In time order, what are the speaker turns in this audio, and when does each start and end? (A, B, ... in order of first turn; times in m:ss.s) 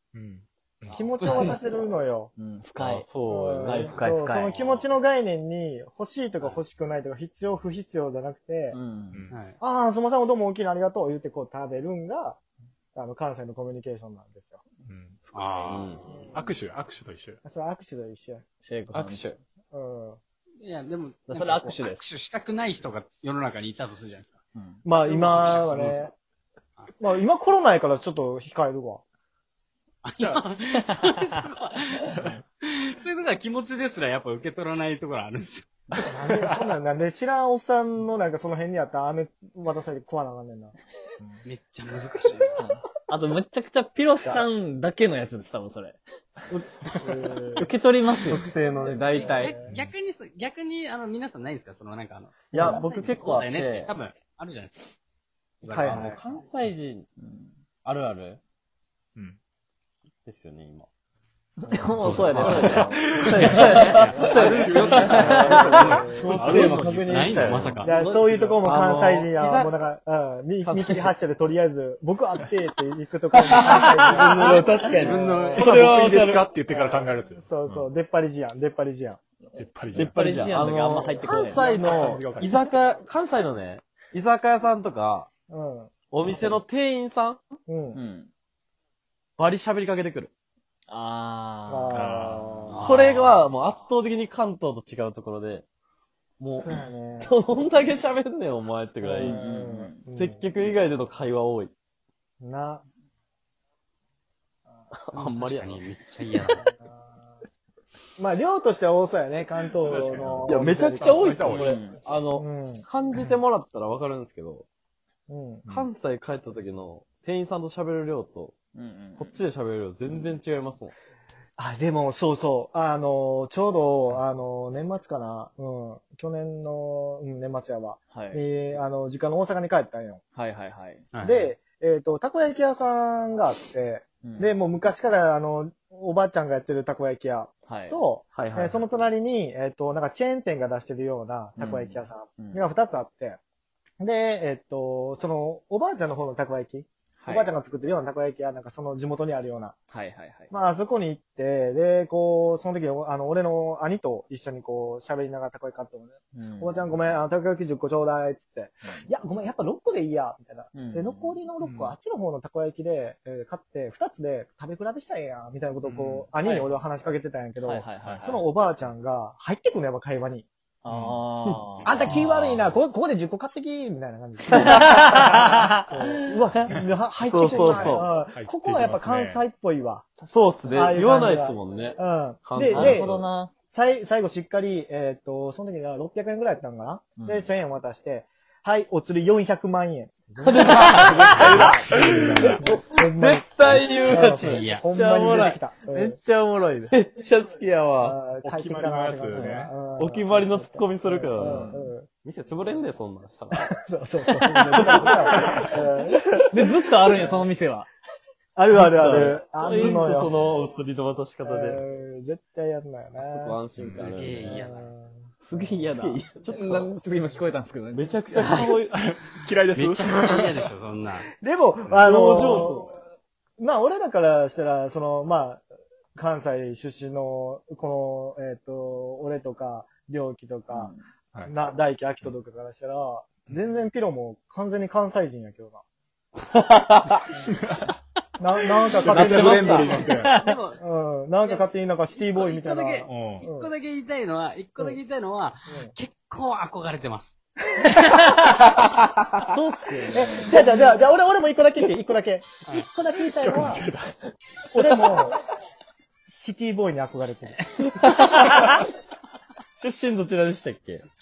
0:00.1-0:01.1 A
0:00.9-0:02.3 B
0:01.2-0:01.6 C
0:02.4-0:03.1 D
0:02.8-0:04.0 E
0:03.3-0:08.8 B
0:03.6-0:04.6 D
0:08.7-0:09.3 D
0:09.3-0:09.6 C
0:09.6-0:12.4 B
0:13.0-0:14.6 B
0:14.9-0:15.2 A
0:15.3-0:16.2 C
0:15.7-0:16.0 E
0:16.1-0:16.5 B
0:16.3-0:17.4 A
0:17.4-0:18.4 B
0:18.6-0:19.4 D
0:18.9-0:19.4 E
0:19.7-0:20.2 B
0:20.6-0:24.4 C
0:21.3-0:22.1 D
0:24.6-0:24.8 D
0:24.8-0:26.1 B
0:25.0-0:26.1 C
0:27.0-0:29.0 B
0:30.0-0:35.8 C
0:36.1-0:40.7 B
0:41.4-0:42.6 C
0:42.6-0:46.0 D
0:47.0-0:47.7 B
0:47.6-0:48.5 D
0:48.3-0:49.6 E
0:48.7-0:49.6 B
0:49.2-0:54.9 C
0:52.5-0:52.8 B
0:52.5-0:53.9 E
0:55.6-0:56.0 C
0:55.7-0:56.2 B
0:55.7-0:57.1 E
0:57.2-0:57.5 D
0:57.8-0:58.4 E
1:00.2-1:00.9 E
1:01.6-1:07.7 D
1:02.0-1:08.0 C
1:02.0-1:09.7 E
1:02.2-1:02.8 B
1:03.5-1:06.4 B
1:04.7-1:07.2 A
1:07.8-1:15.7 B
1:10.6-1:11.1 E
1:13.5-1:16.5 E
1:13.8-1:14.7 D
1:14.7-1:15.7 C
1:15.6-1:17.9 A
1:16.7-1:19.2 B
1:19.6-1:20.2 A
1:19.9-1:22.1 D
1:20.0-1:25.3 E
1:21.2-1:22.4 B
1:21.5-1:22.7 A
1:25.5-1:26.4 B
1:26.1-1:27.4 E
1:27.7-1:28.0 B
1:27.9-1:28.3 D
1:29.4-1:30.3 E
1:30.9-1:32.0 D
1:31.7-1:32.8 B
1:31.9-1:32.6 A
1:32.7-1:33.4 C
1:32.8-1:35.6 E
1:36.4-1:39.4 E
1:36.6-1:37.3 B
1:39.0-1:40.5 B
1:39.2-1:40.0 D
1:40.2-1:41.7 E
1:42.4-1:42.8 B
1:44.9-1:45.8 E
1:45.1-1:46.7 C
1:46.6-1:47.3 B
1:48.2-1:51.5 B
1:49.8-1:51.8 A
1:50.5-1:54.7 E
1:51.6-1:52.0 D
1:52.3-1:52.9 B
1:55.3-1:55.7 B
1:55.7-1:58.6 E
1:58.7-1:59.4 D
1:59.2-2:01.0 E
2:01.6-2:10.2 B
2:08.1-2:08.4 D
2:10.4-2:11.0 D
2:11.1-2:11.5 C
2:11.2-2:23.4 B
2:14.2-2:14.5 D
2:17.7-2:18.0 D
2:18.4-2:18.8 E
2:21.6-2:22.6 D
2:24.0-2:29.8 B
2:27.2-2:27.5 D
2:29.9-2:30.5 D
2:30.5-2:50.5 B
2:36.3-2:36.9 D
2:40.7-2:41.4 D
2:41.6-2:42.0 A
2:45.8-2:46.3 A
2:47.6-2:48.5 D
2:50.8-2:52.1 D
2:50.9-2:51.2 A
2:51.8-3:00.1 B
2:52.0-2:52.7 A
2:54.6-2:55.7 D
2:57.2-2:58.1 E
2:57.4-2:58.0 D
2:57.6-2:59.4 A
3:00.2-3:01.1 D
3:00.3-3:03.2 E
3:00.7-3:16.2 B
3:02.6-3:03.5 D
3:07.2-3:07.5 D
3:10.4-3:11.9 D
3:10.7-3:14.7 E
3:12.3-3:12.6 A
3:13.7-3:14.8 C
3:14.8-3:17.0 D
3:16.9-3:18.2 E
3:18.0-3:22.1 B
3:18.3-3:19.7 A
3:19.3-3:19.6 D
3:19.9-3:23.7 E
3:21.4-3:21.9 D
3:23.8-3:26.4 B
3:24.5-3:25.4 D
3:24.7-3:25.4 E
3:26.5-3:27.9 D
3:27.1-3:27.4 B
3:28.6-3:30.4 B
3:28.8-3:31.8 E
3:31.4-3:33.6 B
3:33.2-3:34.6 E
3:33.8-3:34.2 A
3:34.0-3:34.9 C
3:34.4-3:35.9 B
3:35.4-3:38.7 D
3:35.9-3:36.9 E
3:37.9-3:38.9 E
3:38.3-3:40.5 A
3:39.7-3:41.3 C
3:41.4-3:43.0 B
3:42.0-3:43.0 E
3:43.6-3:45.6 B
3:46.2-3:55.8 B
3:50.7-3:51.0 D
3:57.5-3:57.9 A
3:58.4-4:00.1 B
3:59.0-4:00.4 A
3:59.0-4:00.4 D
3:59.1-4:00.0 E
4:00.0-4:00.8 C
4:00.8-4:03.7 B
4:01.4-4:07.4 C
4:03.1-4:03.4 A
4:05.7-4:05.9 B
4:09.4-4:10.7 D
4:10.1-4:13.9 B
4:13.4-4:14.2 A
4:14.7-4:15.4 B
4:16.3-4:17.8 B
4:17.8-4:18.7 D
4:19.8-4:21.0 E